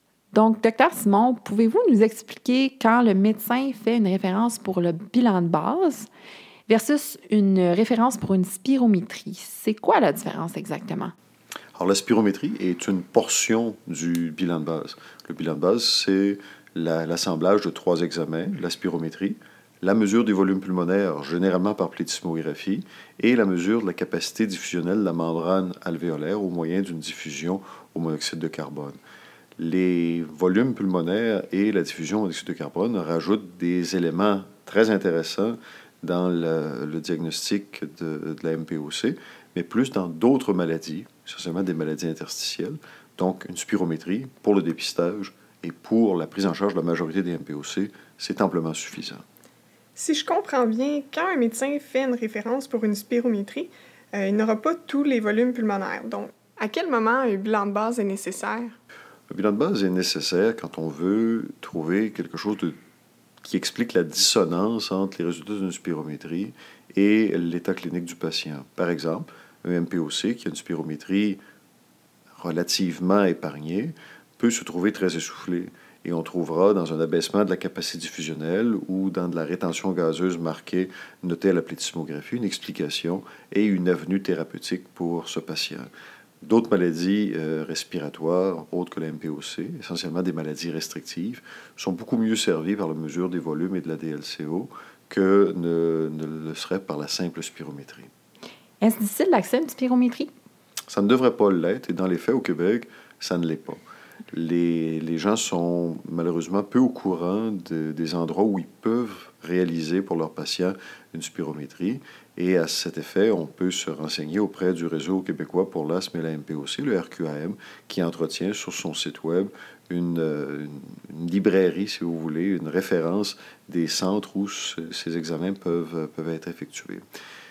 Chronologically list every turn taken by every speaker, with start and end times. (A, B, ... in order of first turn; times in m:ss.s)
0:00.3-0:06.1 A
0:06.7-0:11.1 A
0:11.8-0:29.0 B
0:29.6-0:49.2 B
0:50.0-0:58.8 C
0:59.3-1:02.8 B
1:03.4-1:11.4 B
1:12.4-1:25.9 B
1:26.4-1:38.1 B
1:38.8-1:40.3 A
1:40.9-1:43.8 B
1:44.3-2:07.0 B